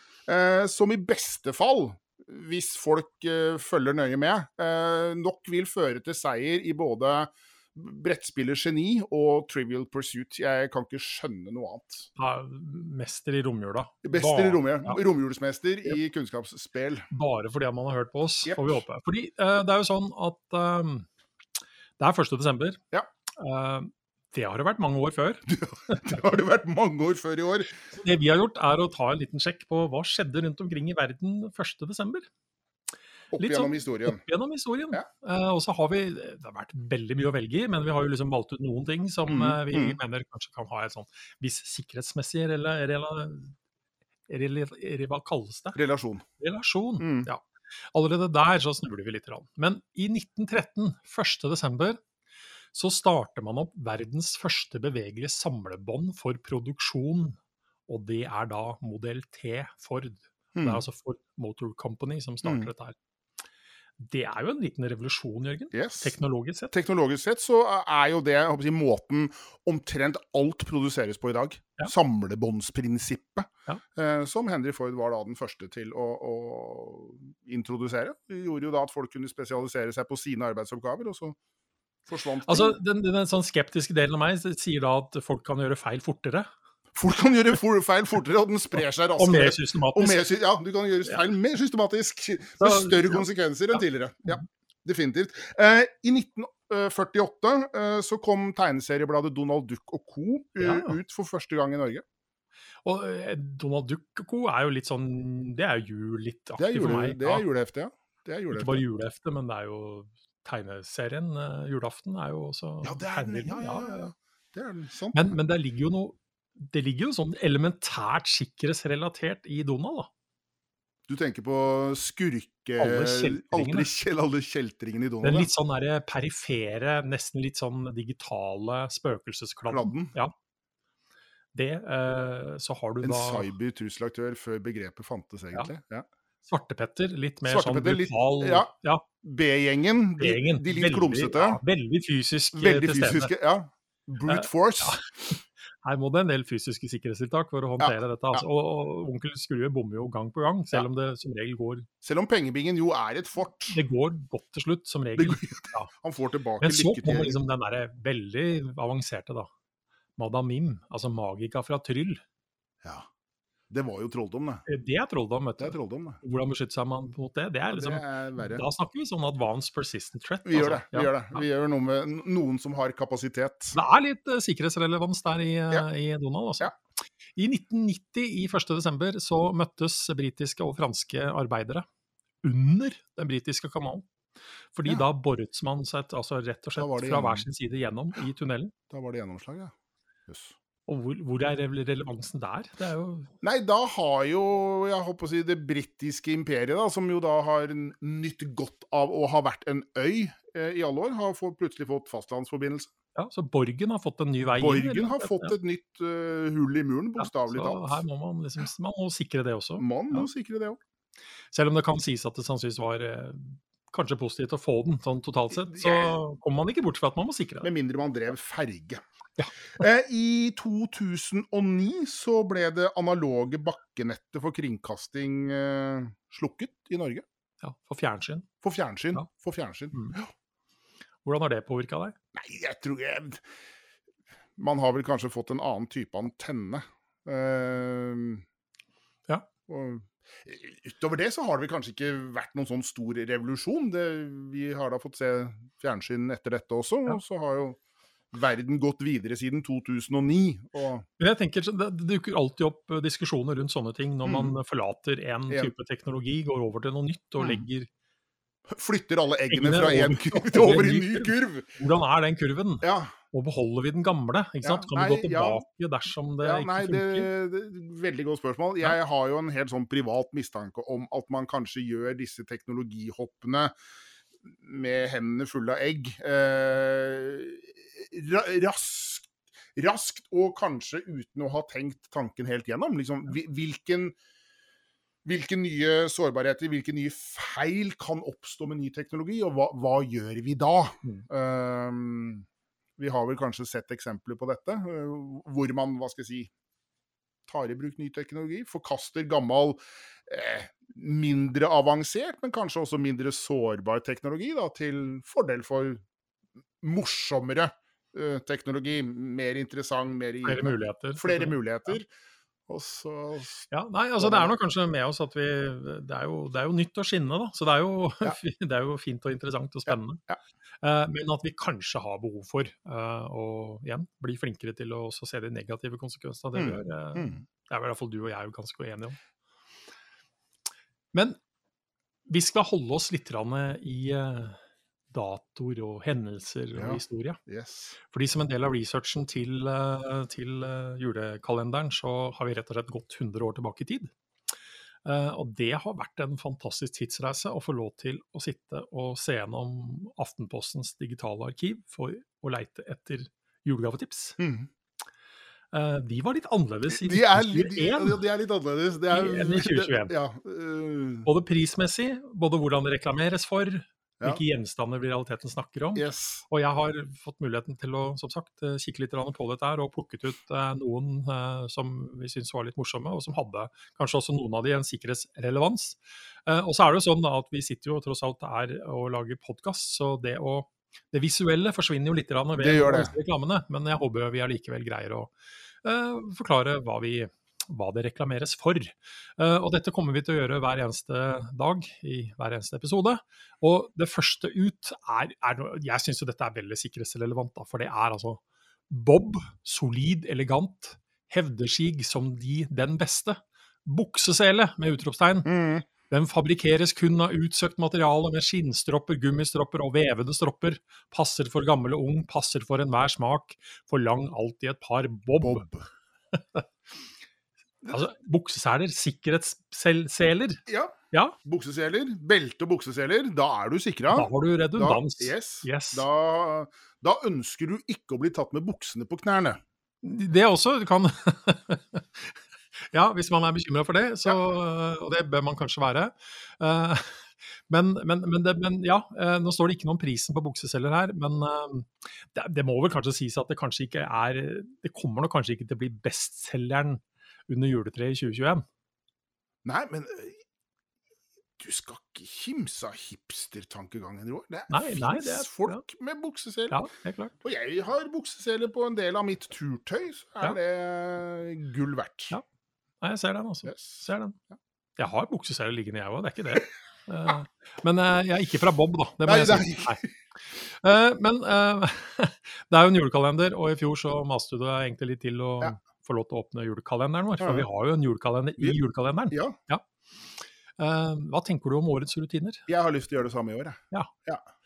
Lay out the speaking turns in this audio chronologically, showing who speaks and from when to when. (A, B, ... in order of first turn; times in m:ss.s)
0:00.3-0:12.1 A
0:12.2-0:15.0 B
0:14.0-0:17.1 A
0:17.1-0:21.1 B
0:18.4-0:18.8 A
0:22.0-0:22.8 B
0:23.4-0:26.0 B
0:25.5-0:27.7 A
0:27.9-0:32.3 B
0:33.3-0:34.2 A
0:33.3-0:43.6 B
0:39.3-0:40.0 A
0:44.3-0:45.8 B
0:45.8-0:46.2 A
0:46.4-0:47.4 B
0:47.0-0:47.3 A
0:47.9-0:52.0 B
0:52.7-1:03.0 B
1:00.6-1:00.8 A
1:02.4-1:02.7 A
1:04.0-1:06.7 B
1:05.7-1:06.2 A
1:06.7-1:21.4 A
1:22.1-1:22.8 A
1:22.4-1:26.5 B
1:27.0-1:42.0 A
1:29.2-1:30.3 B
1:32.6-1:33.8 B
1:40.6-1:41.0 B
1:42.8-1:47.5 B
1:46.6-1:48.8 A
1:48.5-1:54.1 B
1:52.8-1:55.4 A
1:55.1-2:00.1 B
2:01.1-2:05.5 A
2:02.8-2:03.9 B
2:05.2-2:10.3 B
2:09.7-2:10.2 A
2:11.5-2:13.5 B
2:13.0-2:16.0 A
2:16.5-2:19.0 B
2:17.5-2:18.7 A
2:19.2-2:21.6 A
2:20.2-2:23.3 B
2:22.5-2:25.0 A
2:24.3-2:31.9 B
2:27.8-2:28.4 A
2:32.0-2:33.8 A
2:33.7-2:35.9 B
2:35.2-2:37.4 A
2:36.6-2:39.5 B
2:40.2-2:42.2 B
2:43.7-2:44.6 A
2:44.7-2:51.4 B
2:45.6-2:46.2 A
2:47.7-2:48.6 A
2:50.4-2:53.8 A
2:53.7-2:56.7 B
2:57.4-3:01.8 B
3:02.4-3:04.1 B
3:04.7-3:08.7 B
3:06.8-3:07.5 A
3:08.9-3:09.7 A
3:10.3-3:10.6 A
3:10.9-3:13.3 B
3:13.4-3:22.9 A
3:23.2-3:25.6 B
3:24.6-3:28.0 A
3:27.2-3:30.3 B
3:29.8-3:30.8 A
3:31.5-3:37.7 B
3:35.6-3:36.2 A
3:37.6-3:39.0 A
3:39.8-3:47.2 A
3:47.6-3:48.5 B
3:48.6-3:50.3 A
3:51.2-3:52.2 B
3:52.3-3:53.4 A
3:54.6-3:58.4 A
3:59.7-4:07.8 A
4:08.3-4:11.0 A
4:11.2-4:17.9 B
4:14.2-4:14.6 A
4:18.7-4:21.7 A
4:19.5-4:27.3 B
4:22.8-4:23.1 A
4:24.6-4:25.6 A
4:26.4-4:33.7 A
4:34.5-4:44.2 A
4:45.2-4:52.4 A
4:53.0-4:56.5 A
4:57.5-5:06.0 A
5:06.8-5:12.1 A
5:10.4-5:11.9 B
5:12.7-5:13.7 A
5:13.7-5:20.2 B
5:14.2-5:14.5 A
5:19.9-5:20.4 A
5:20.8-5:29.2 B
5:26.6-5:27.4 A
5:31.1-5:31.4 B
5:32.3-5:34.6 B
5:35.1-5:37.4 B
5:36.8-5:38.0 A
5:38.0-5:44.1 B
5:45.0-5:54.4 B
5:54.4-5:54.7 A
5:55.7-5:58.2 B
5:56.9-6:01.3 A
5:59.1-6:00.2 B
6:01.3-6:25.3 B
6:06.0-6:06.4 A
6:22.6-6:23.2 A
6:25.8-6:45.5 B
6:45.4-6:45.9 A
6:46.1-6:55.7 B
6:55.4-6:55.9 A
6:56.4-6:56.6 B
6:57.9-7:01.4 B
7:00.7-7:09.6 A
7:04.1-7:06.1 B
7:10.0-7:12.4 B
7:12.9-7:28.6 B
7:29.6-7:30.4 A
7:31.6-7:36.8 A
7:34.7-7:35.8 B
7:36.7-7:37.3 B
7:37.4-7:42.4 A
7:43.0-7:44.4 B
7:43.7-7:44.1 A
7:45.0-7:50.0 B
7:49.2-7:50.1 A
7:50.6-7:59.8 B
7:57.4-7:57.7 A
7:59.3-7:59.6 A
8:00.8-8:02.6 B
8:02.7-8:04.4 A